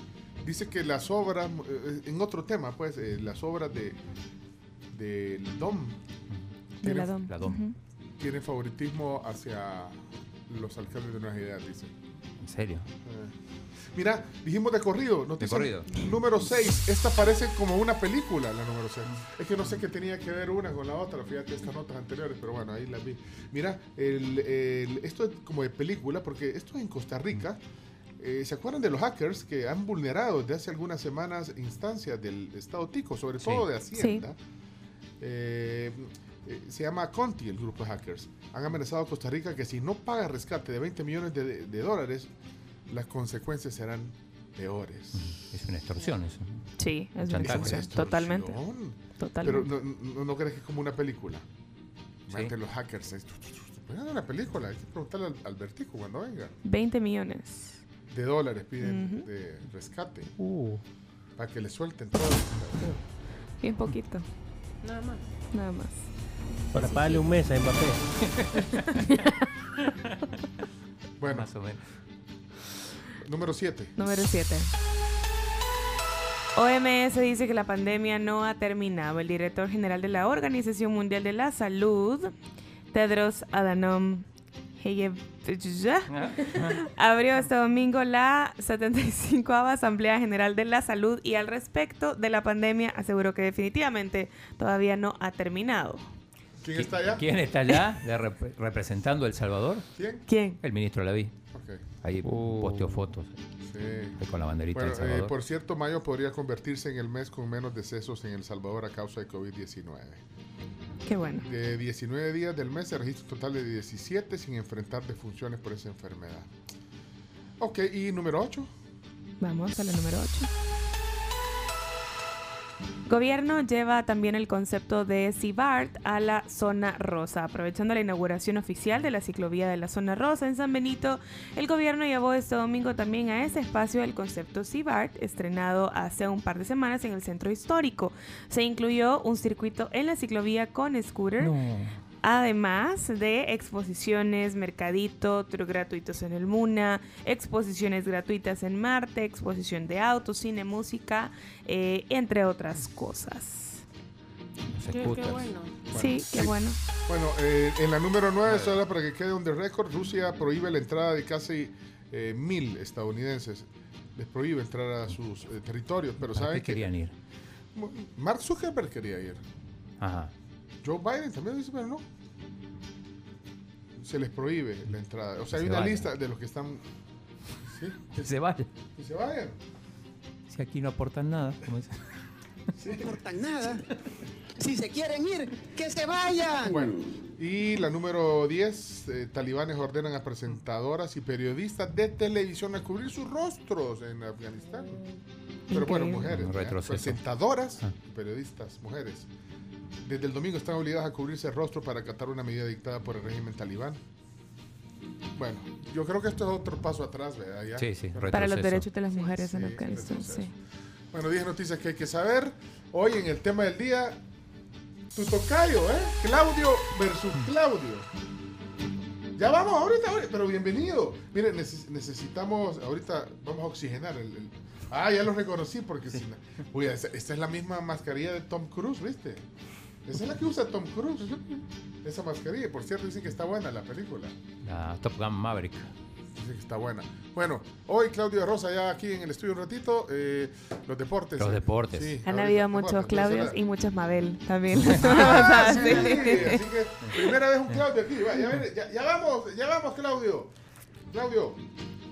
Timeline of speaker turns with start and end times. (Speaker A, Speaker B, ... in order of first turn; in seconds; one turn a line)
Speaker A: 0.4-4.0
Speaker A: 4.9-6.0
Speaker A: 6.8-7.2
Speaker B: 6.8-7.8
Speaker C: 7.3-7.6
Speaker A: 8.2-11.9
Speaker C: 12.4-12.9
Speaker A: 13.1-13.3
Speaker A: 13.9-27.6
Speaker C: 15.4-15.9
Speaker C: 19.1-19.8
Speaker A: 28.2-34.4
Speaker C: 33.4-33.7
Speaker B: 33.9-34.2
Speaker A: 35.2-42.3
Speaker A: 42.9-45.3
Speaker C: 45.1-47.8
Speaker B: 46.8-48.5
Speaker A: 47.4-51.5
Speaker B: 49.2-49.7
Speaker C: 52.3-52.5
Speaker A: 52.3-56.5
Speaker B: 56.6-57.8
Speaker A: 58.1-60.3
Speaker B: 58.8-59.3
Speaker D: 60.4-60.8
Speaker A: 61.4-62.9
Speaker B: 63.6-64.2
Speaker E: 64.8-65.2
Speaker B: 65.5-66.1
Speaker D: 66.7-68.1
Speaker E: 66.9-67.2
Speaker C: 68.3-69.0
Speaker A: 71.2-71.5
Speaker C: 71.3-71.8
Speaker A: 73.2-74.0
Speaker B: 74.0-74.7
Speaker B: 76.6-82.3
Speaker B: 82.9-84.2
Speaker B: 84.8-86.1
Speaker C: 86.1-86.8
Speaker B: 86.8-96.0
Speaker A: 96.6-97.2
Speaker C: 96.7-99.9
Speaker A: 100.0-100.3
Speaker B: 100.3-100.6
Speaker C: 100.5-101.3
Speaker A: 101.5-101.8
Speaker C: 102.0-103.4
Speaker D: 102.3-103.0
Speaker A: 103.6-104.2
Speaker C: 104.2-105.3
Speaker A: 104.7-110.2
Speaker B: 111.1-111.5
Speaker A: 111.4-116.5
Speaker A: 117.6-118.7
Speaker B: 119.4-120.5
Speaker B: 123.1-141.5
Speaker C: 141.4-142.0
Speaker B: 142.2-153.8
Speaker C: 154.7-155.5
Speaker E: 154.9-155.8
Speaker A: 155.9-166.9
Speaker B: 156.0-156.8
Speaker C: 158.4-158.8
Speaker C: 166.2-167.1
Speaker A: 167.8-169.4
Speaker C: 170.0-170.3
Speaker A: 170.8-172.1
Speaker A: 174.0-176.8
Speaker C: 175.5-176.1
Speaker A: 177.7-178.3
Speaker C: 178.1-178.7
Speaker A: 178.9-179.6
Speaker C: 180.5-182.0
Speaker A: 182.8-183.2
Speaker F: 183.0-183.8
Speaker F: 184.6-186.9
Speaker A: 186.7-195.0
Speaker E: 194.7-195.2
Speaker A: 195.7-199.3
Speaker B: 195.7-196.3
Speaker C: 196.2-197.9
Speaker A: 200.1-204.0
Speaker A: 205.3-208.5
Speaker C: 207.8-208.9
Speaker B: 208.3-210.5
Speaker A: 209.2-210.5
Speaker D: 209.4-209.8
Speaker A: 211.1-214.2
Speaker A: 215.1-218.1
Speaker A: 219.4-229.4
Speaker A: 230.1-231.4
Speaker A: 232.0-234.3
Speaker C: 234.6-235.9
Speaker A: 236.4-243.6
Speaker C: 241.4-242.2
Speaker B: 242.3-246.6
Speaker C: 244.7-246.4
Speaker A: 245.0-250.5
Speaker C: 247.0-247.8
Speaker A: 251.1-251.6